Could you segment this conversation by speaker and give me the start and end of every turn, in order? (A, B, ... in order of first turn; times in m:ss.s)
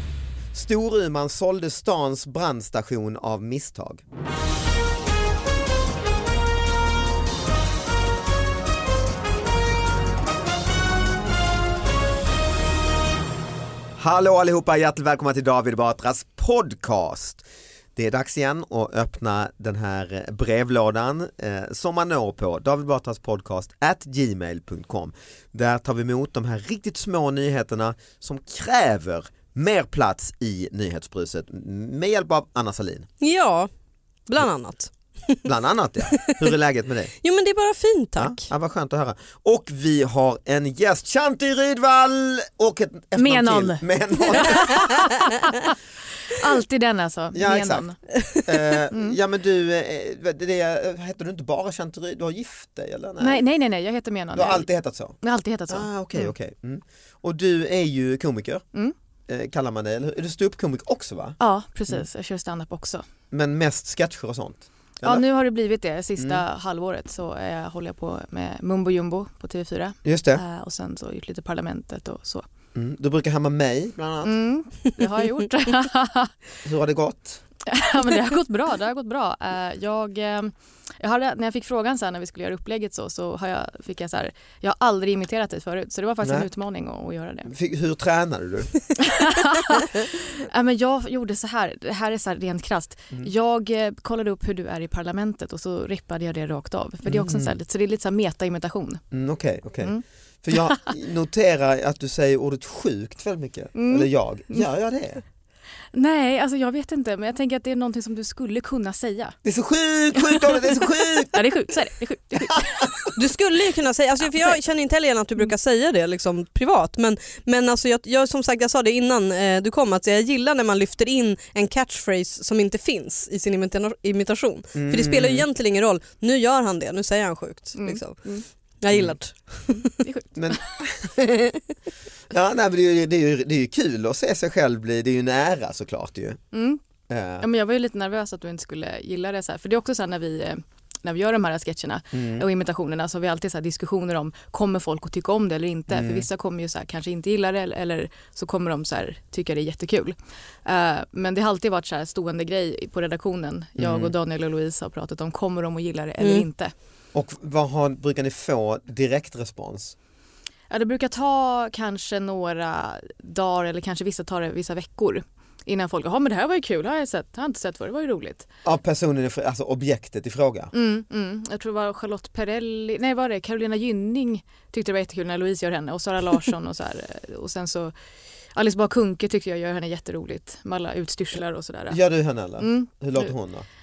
0:00.5-0:04.0 A
0:14.0-0:17.4 A
0:18.0-0:33.1 A
0:33.2-0:33.7 B
0:34.3-0:35.4 B
0:35.4-0:37.1 A
0:36.1-0:36.4 B
0:37.2-0:38.4 B
0:38.2-0:45.1 A
0:43.2-0:45.7 C
0:46.3-0:48.0 C
0:47.3-0:47.9 A
0:48.2-0:48.6 B
0:48.4-0:53.4 A
0:48.9-0:49.2 C
0:53.2-0:54.7 C
0:54.3-0:55.2 A
0:55.2-0:56.3 C
0:55.7-0:58.6 A
0:59.3-1:01.4 A
1:01.4-1:03.0 C
1:03.3-1:05.2 A
1:05.0-1:12.4 C
1:06.2-1:06.4 A
1:10.0-1:10.4 A
1:12.7-1:14.4 A
1:14.2-1:16.3 C
1:16.6-1:17.4 A
1:17.7-1:27.5 C
1:27.5-1:28.7 A
1:29.0-1:39.0 C
1:37.0-1:37.5 A
1:39.1-1:45.2 A
1:43.7-1:44.7 C
1:45.9-1:49.4 C
1:49.4-1:51.3 A
1:50.1-1:53.2 C
1:52.8-1:53.0 A
1:53.1-2:08.2 B
2:04.7-2:05.4 A
2:07.8-2:08.4 C
2:08.8-2:09.9 B
2:08.9-2:09.2 A
2:10.0-2:10.6 C
2:10.4-2:11.6 A
2:12.3-2:16.4 A
2:16.5-2:16.8 C
2:17.1-2:17.4 A
2:17.4-2:36.7 C
2:22.1-2:22.4 A
2:25.9-2:26.2 A
2:33.8-2:34.1 A
2:36.2-2:36.4 B
2:37.1-2:39.9 A
2:40.7-2:48.5 C
2:48.6-2:50.7 A
2:50.7-2:57.9 C
2:58.5-3:02.0 C
3:01.9-3:03.6 A
3:02.6-3:03.3 C